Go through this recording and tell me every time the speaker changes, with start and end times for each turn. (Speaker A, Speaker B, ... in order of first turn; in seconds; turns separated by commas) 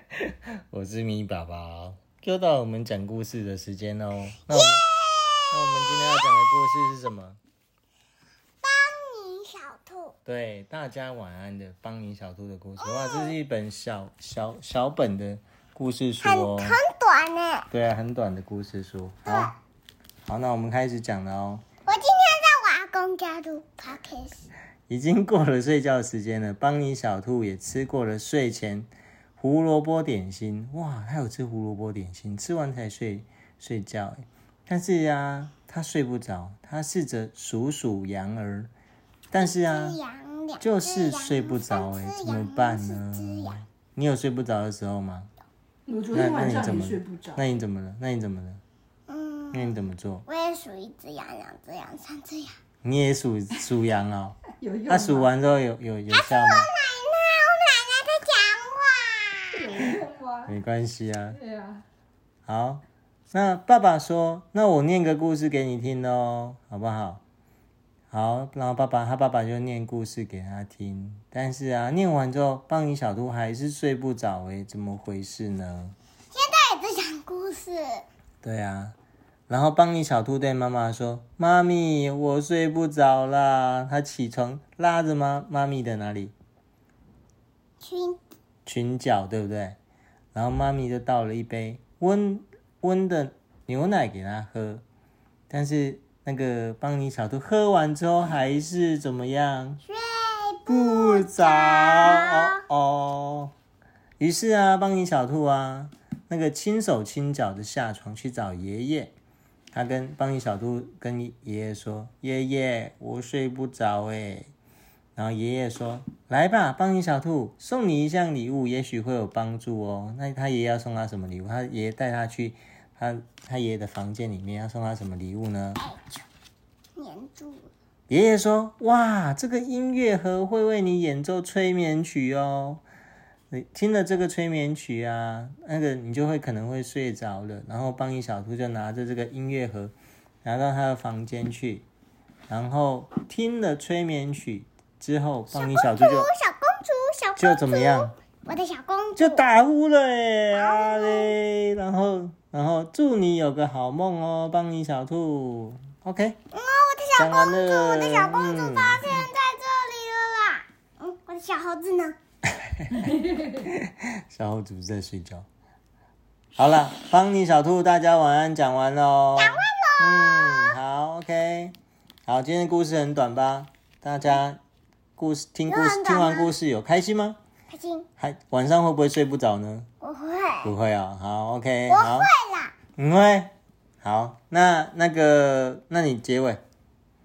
Speaker A: 0.1-4.8, Speaker B: 4.5-6.6, Speaker A: 5.5-7.4, Speaker B: 8.6-10.2, Speaker A: 10.2-16.8, Speaker B: 12.8-13.3, Speaker B: 16.2-17.7, Speaker A: 17.7-19.6, Speaker B: 19.2-19.6, Speaker A: 20.2-21.6, Speaker B: 21.9-24.5, Speaker A: 24.9-38.7, Speaker A: 39.3-40.0, Speaker B: 39.4-43.6, Speaker A: 40.6-45.3, Speaker C: 45.9-47.4, Speaker A: 46.1-48.6, Speaker B: 49.1-49.7, Speaker A: 49.5-50.2, Speaker B: 50.2-52.6, Speaker A: 52.8-56.7, Speaker C: 54.6-55.3, Speaker B: 56.1-59.7, Speaker C: 59.5-60.5, Speaker A: 60.5-61.4, Speaker C: 61.4-61.8, Speaker A: 62.5-67.2, Speaker A: 68.1-76.0, Speaker B: 76.3-78.0, Speaker A: 78.4-79.0, Speaker A: 79.5-86.3, Speaker B: 87.8-88.2, Speaker A: 88.7-89.8, Speaker A: 90.3-94.8, Speaker A: 95.5-99.8, Speaker B: 99.8-102.6, Speaker A: 100.7-103.5, Speaker A: 104.2-109.1, Speaker A: 109.7-114.5, Speaker A: 115.2-125.8, Speaker B: 125.8-126.2, Speaker B: 127.0-127.7, Speaker A: 128.1-132.8, Speaker A: 133.5-141.8, Speaker A: 142.5-146.3, Speaker B: 145.5-149.4, Speaker A: 147.4-148.1, Speaker A: 149.2-156.4, Speaker B: 150.5-151.3, Speaker B: 156.5-162.2, Speaker A: 157.2-159.2, Speaker A: 162.6-165.4, Speaker A: 166.6-171.7, Speaker B: 169.3-170.8, Speaker A: 172.2-174.6, Speaker A: 175.2-177.4, Speaker B: 175.7-176.5, Speaker B: 177.7-178.1, Speaker A: 178.2-179.9, Speaker B: 180.0-180.7, Speaker A: 180.6-182.3, Speaker B: 181.9-182.7, Speaker A: 183.0-186.6